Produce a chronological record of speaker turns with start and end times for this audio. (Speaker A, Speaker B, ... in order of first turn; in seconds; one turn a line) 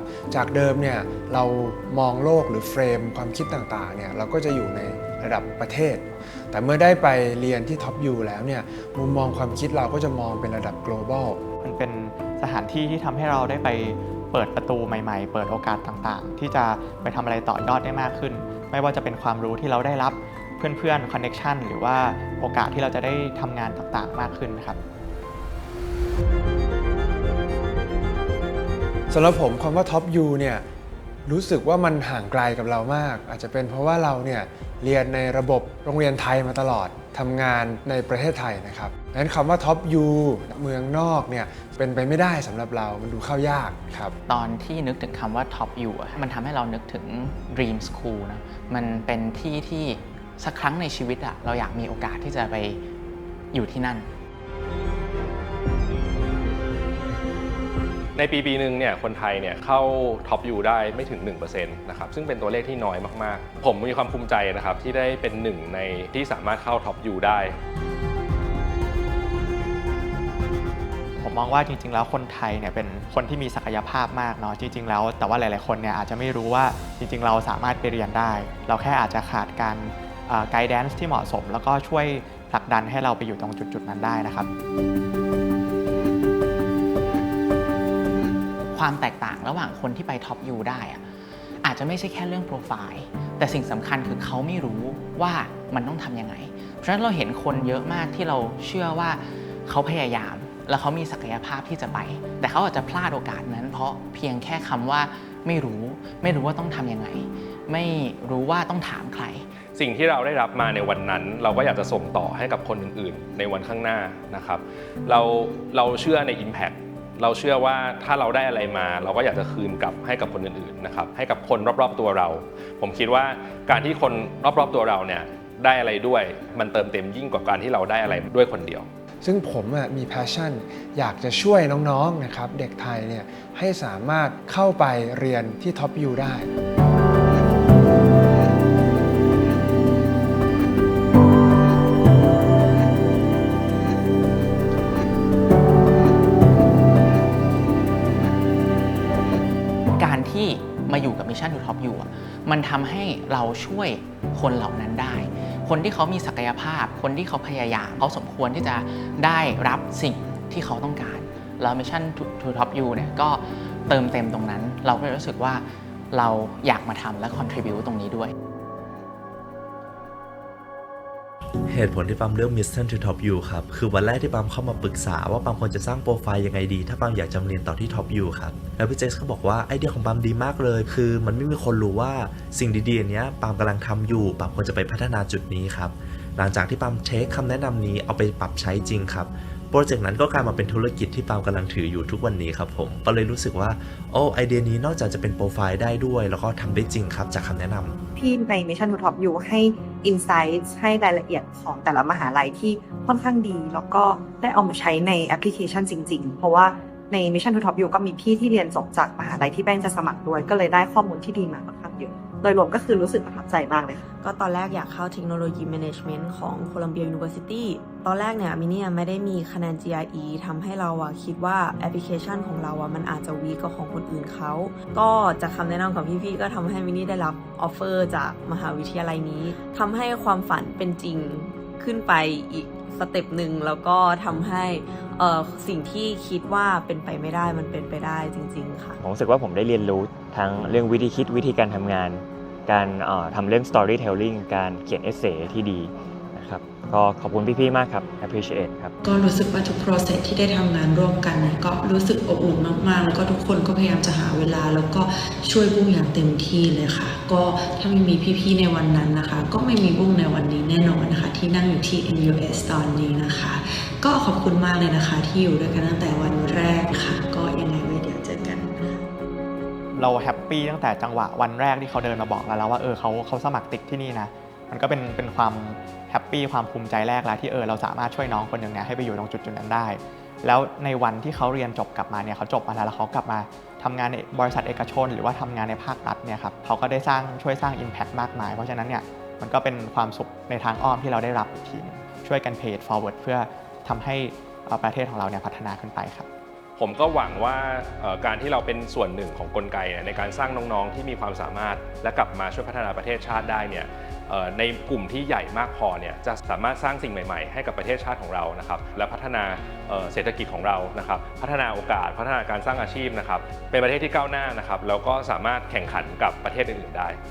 Speaker A: 0.3-11.4
Speaker B: 11.6-24.8
Speaker A: 29.1-30.6
Speaker A: 31.2-44.1
Speaker C: 44.3-52.8
Speaker C: 53.5-54.1
Speaker D: 58.1-67.6
Speaker B: 71.2-84.5
Speaker C: 88.7-91.0
Speaker C: 91.6-109.5
Speaker D: 109.8-128.9
Speaker A: 129.2-136.5
Speaker C: 150.0-168.3
Speaker E: 171.7-197.9
Speaker F: 198.2-214.0
Speaker G: 214.2-239.0
Speaker H: 239.0-248.9
Speaker I: 249.0-269.0
Speaker B: 269.9-296.3
Speaker D: 296.8-317.2